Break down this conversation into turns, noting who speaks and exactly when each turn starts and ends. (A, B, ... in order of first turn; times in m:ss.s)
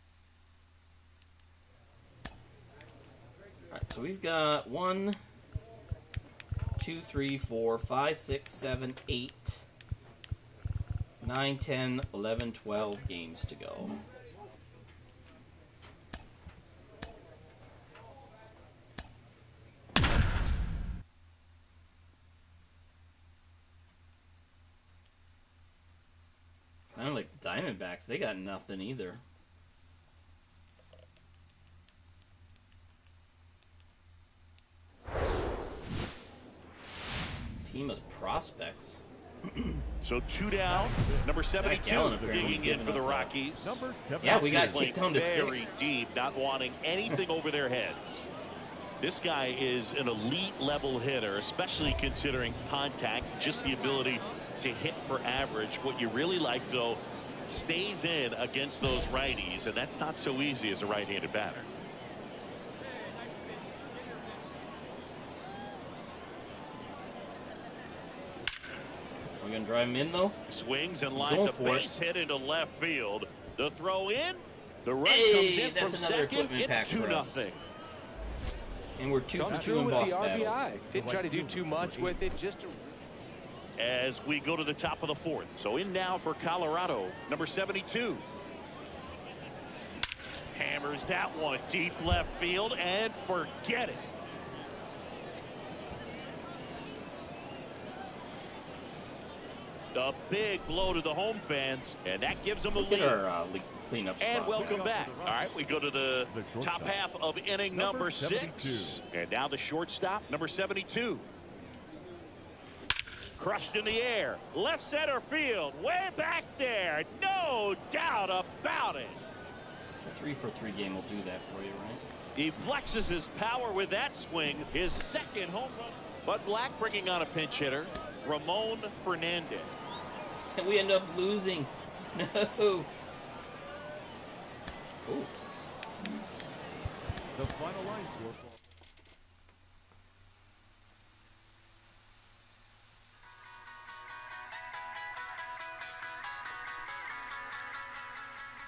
0:03.7-0:05.2 A
0:06.8-0:09.7 A
0:11.2-0:14.0 A
0:26.9-0:29.2 A
0:37.6-0:39.8 A
0:40.0-0:48.3 B
0:40.7-0:41.3 C
0:41.6-0:43.4 A
0:42.1-0:42.8 C
0:43.6-0:45.0 C
0:44.2-0:45.6 A
0:49.0-1:01.7 B
1:09.4-1:10.4 A
1:10.5-1:17.6 B
1:11.2-1:12.0 A
1:15.0-1:17.5 A
1:19.0-1:20.7 A
1:19.4-1:23.0 D
1:19.4-1:20.3 C
1:20.9-1:22.2 C
1:23.8-1:28.2 B
1:30.5-1:34.0 B
1:39.9-1:43.2 B
1:42.8-1:44.8 A
1:44.2-1:51.3 B
1:44.5-1:45.6 C
1:46.3-1:47.0 C
1:47.7-1:49.0 C
1:53.4-1:59.2 B
2:00.0-2:02.0 A
2:02.4-2:09.7 B
2:10.6-2:12.9 A
2:15.1-2:15.4 A
2:17.4-2:18.6 C